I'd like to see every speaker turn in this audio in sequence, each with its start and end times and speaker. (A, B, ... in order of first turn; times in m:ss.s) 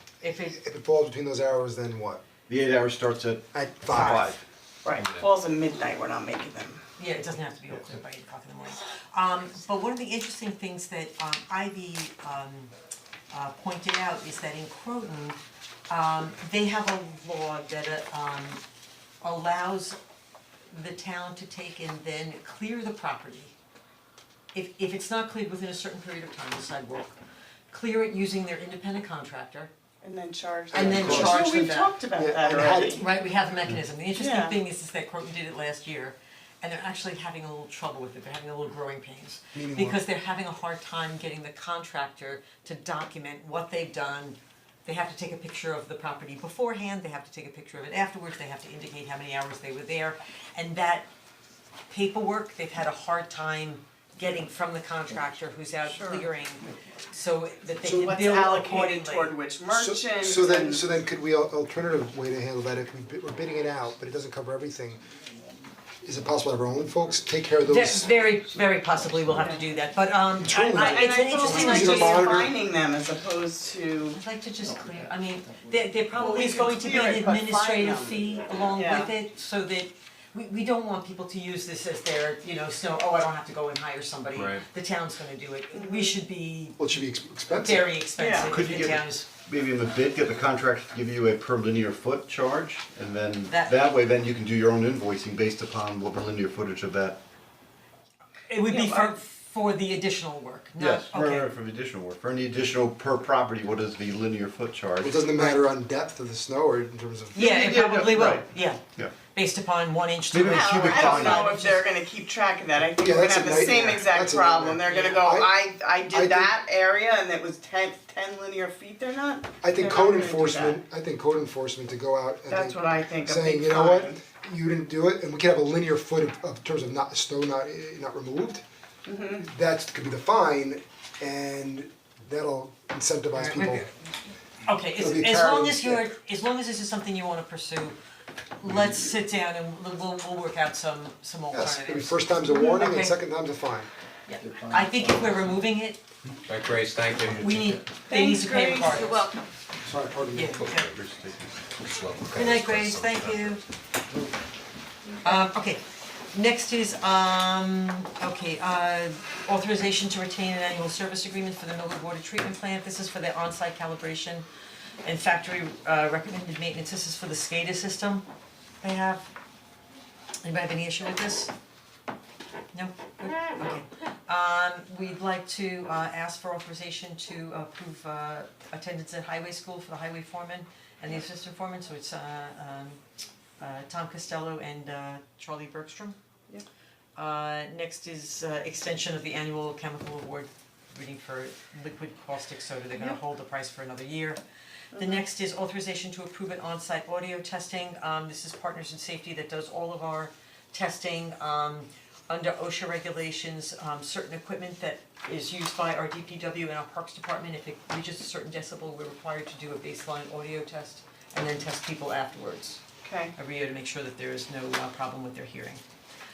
0:00.2-0:00.6 A
0:00.5-0:02.2 B
0:02.5-0:04.4 C
0:03.5-0:04.3 B
0:04.8-0:06.8 D
0:04.9-0:05.3 E
0:07.0-0:12.7 A
0:13.3-0:15.4 A
0:15.9-0:18.6 A
0:19.2-0:20.0 A
0:20.7-0:23.5 A
0:24.5-0:27.2 A
0:27.7-0:29.7 A
0:30.0-0:33.0 D
0:30.7-0:31.5 B
0:30.7-0:31.9 A
0:30.8-0:31.2 C
0:32.2-0:33.0 B
0:33.0-0:51.1 A
0:34.2-0:34.6 D
0:39.5-0:40.0 B
0:51.9-0:59.3 A
0:55.9-0:56.2 D
0:57.8-0:58.1 B
0:57.9-1:00.9 D
0:59.7-1:05.0 B
1:06.0-1:08.2 B
1:07.6-1:12.4 A
1:10.4-1:12.5 B
1:10.8-1:14.2 D
1:14.1-1:26.8 A
1:16.2-1:18.2 D
1:18.7-1:19.1 D
1:24.3-1:24.6 E
1:25.7-1:26.2 D
1:26.8-1:27.9 B
1:27.5-1:29.3 A
1:28.2-1:28.7 D
1:28.5-1:37.2 C
1:33.5-1:33.8 A
1:38.5-1:41.5 A
1:38.7-1:39.1 D
1:40.8-1:45.2 C
1:45.0-1:47.5 B
1:47.3-1:51.8 A
1:47.4-1:47.9 D
1:47.5-1:48.4 C
1:50.3-1:51.5 C
1:50.4-2:00.8 D
1:53.0-1:55.5 B
1:54.9-1:55.2 A
1:56.1-1:56.5 B
1:59.6-2:08.6 B
2:02.5-2:04.2 D
2:09.0-2:09.4 D
2:09.4-2:13.9 B
2:13.4-2:13.9 A
2:14.6-2:18.0 A
2:15.0-2:16.1 B
2:18.6-2:23.2 A
2:21.5-2:23.9 B
2:24.3-2:26.0 A
2:26.4-2:27.7 E
2:27.4-2:29.3 A
2:28.1-2:29.4 D
2:29.8-2:30.6 B
2:30.3-2:30.9 A
2:30.6-2:30.9 E
2:30.8-2:31.6 C
2:31.8-2:33.4 E
2:32.3-2:33.6 A
2:35.2-2:44.4 A
2:45.0-2:48.2 A
2:48.8-2:49.3 A
2:50.4-2:51.5 A
2:52.7-3:03.0 A
3:03.6-3:06.2 A
3:07.2-3:14.4 A
3:14.9-3:15.2 D
3:14.9-3:32.8 A
3:33.0-3:33.3 D
3:33.3-3:35.8 A